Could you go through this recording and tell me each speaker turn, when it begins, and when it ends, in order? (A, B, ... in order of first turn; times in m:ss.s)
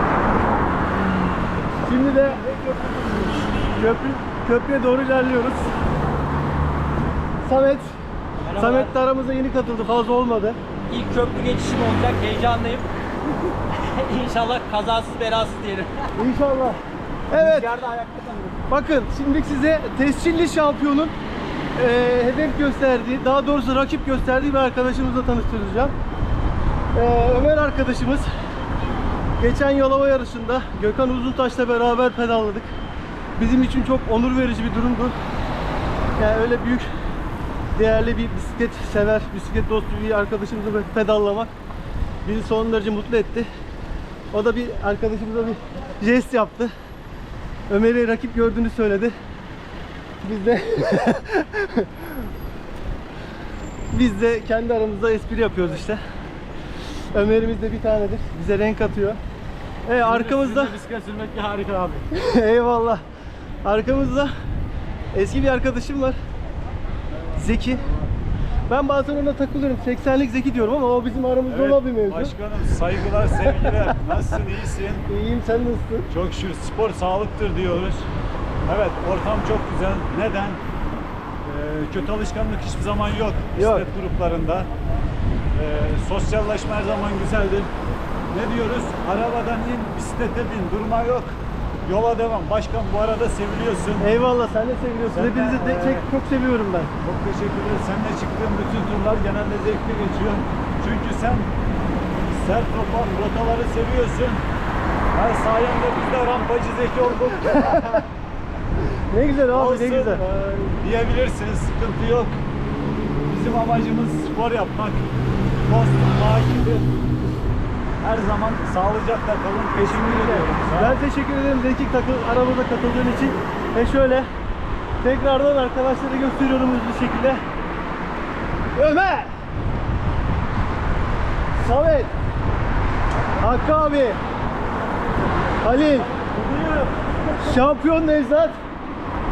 0:01.8-0:02.4 A
0:02.6-0:03.3 B
0:03.8-0:05.7 A
0:07.4-0:07.9 A
0:08.4-0:09.0 C
0:08.6-0:10.6 A
0:10.9-0:12.9 C
0:13.8-0:16.0 C
0:16.2-0:16.8 A
0:17.3-0:17.7 A
0:17.3-0:18.6 C
0:18.7-0:21.1 A
0:21.8-0:25.9 A
0:26.9-0:28.3 A
0:29.4-0:32.7 A
0:33.4-0:35.2 A
0:36.2-0:36.9 A
0:37.7-0:41.5 A
0:42.2-0:43.5 A
0:44.3-0:46.7 A
0:47.7-0:49.2 A
0:50.2-0:52.2 A
0:53.9-0:56.0 A
0:57.1-0:59.2 A
0:59.9-1:00.8 A
1:00.5-1:02.0 B
1:01.3-1:01.9 C
1:02.1-1:03.0 A
1:03.6-1:04.3 A
1:05.1-1:06.2 A
1:07.4-1:07.9 A
1:08.7-1:12.3 A
1:11.5-1:15.0 D
1:15.1-1:16.1 A
1:16.1-1:18.1 D
1:18.7-1:20.6 D
1:21.4-1:24.7 D
1:23.6-1:23.9 A
1:25.6-1:27.7 D
1:28.3-1:34.1 D
1:34.0-1:36.9 A
1:35.1-1:36.1 D
1:37.0-1:41.5 D
1:42.3-1:44.4 D
1:45.1-1:48.0 D
1:47.5-1:48.0 A
1:49.1-1:50.2 A
1:49.5-1:52.4 D
1:53.3-1:55.1 D
1:55.7-1:56.9 D
1:58.0-2:01.0 D
1:59.8-2:04.3 A
2:05.0-2:07.4 A
2:08.7-2:09.3 A
2:11.6-2:12.1 A
2:13.4-2:14.2 A
2:15.6-2:16.1 A
2:17.4-2:18.6 A